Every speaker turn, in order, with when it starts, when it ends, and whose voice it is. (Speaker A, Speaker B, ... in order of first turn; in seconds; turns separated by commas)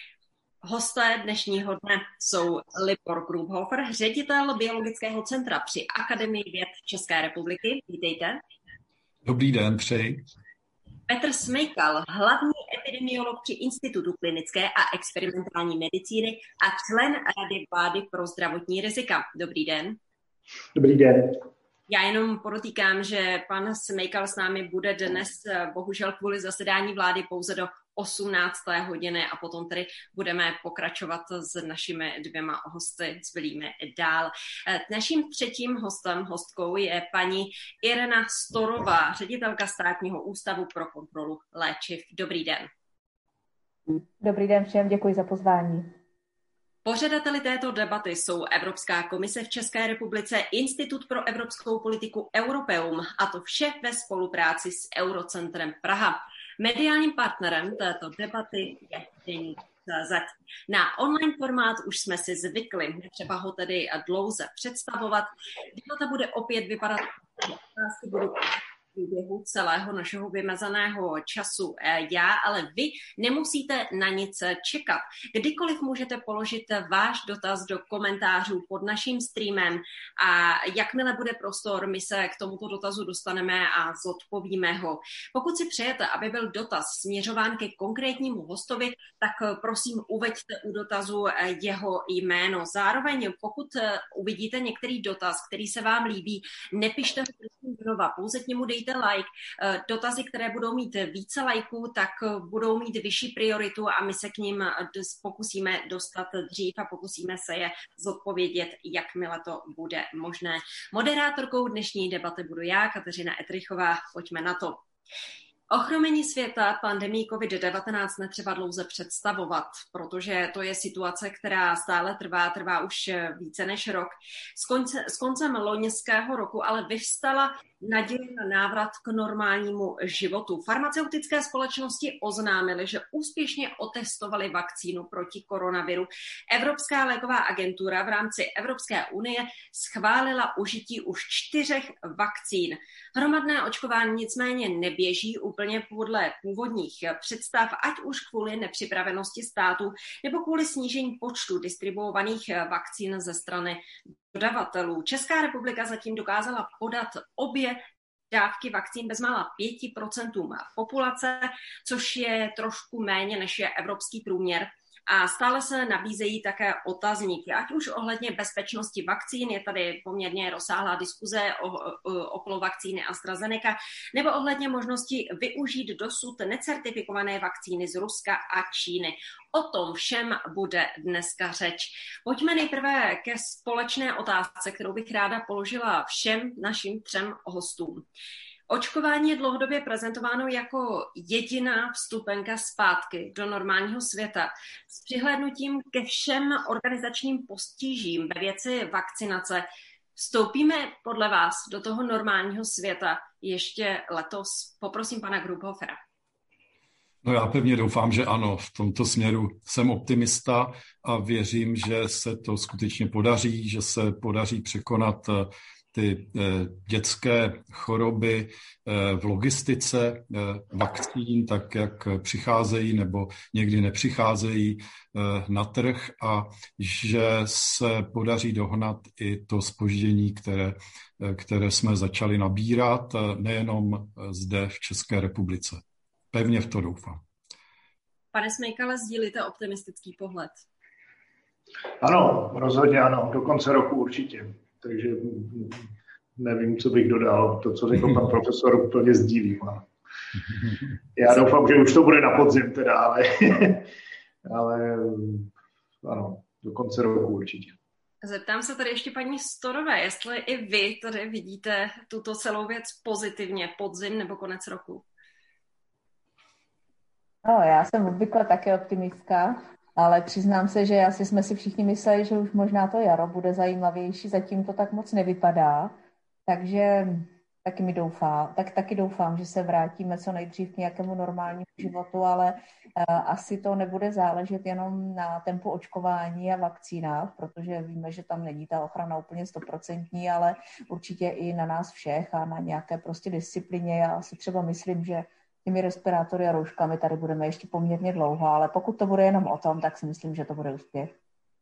Speaker A: 0.6-8.4, Speaker B: 9.2-10.2, Speaker A: 11.1-20.0, Speaker C: 20.8-21.4, Speaker A: 21.9-42.7, Speaker D: 44.2-45.9, Speaker A: 46.9-114.8, Speaker A: 115.7-188.1, Speaker A: 188.7-206.0, Speaker B: 207.2-235.8, Speaker B: 236.3-237.2, Speaker A: 238.3-240.7, Speaker C: 242.0-245.9, Speaker C: 246.4-249.9, Speaker C: 251.2-253.9, Speaker C: 254.4-255.5, Speaker C: 256.0-257.8, Speaker A: 258.2-265.1, Speaker D: 267.4-275.9, Speaker D: 276.5-301.1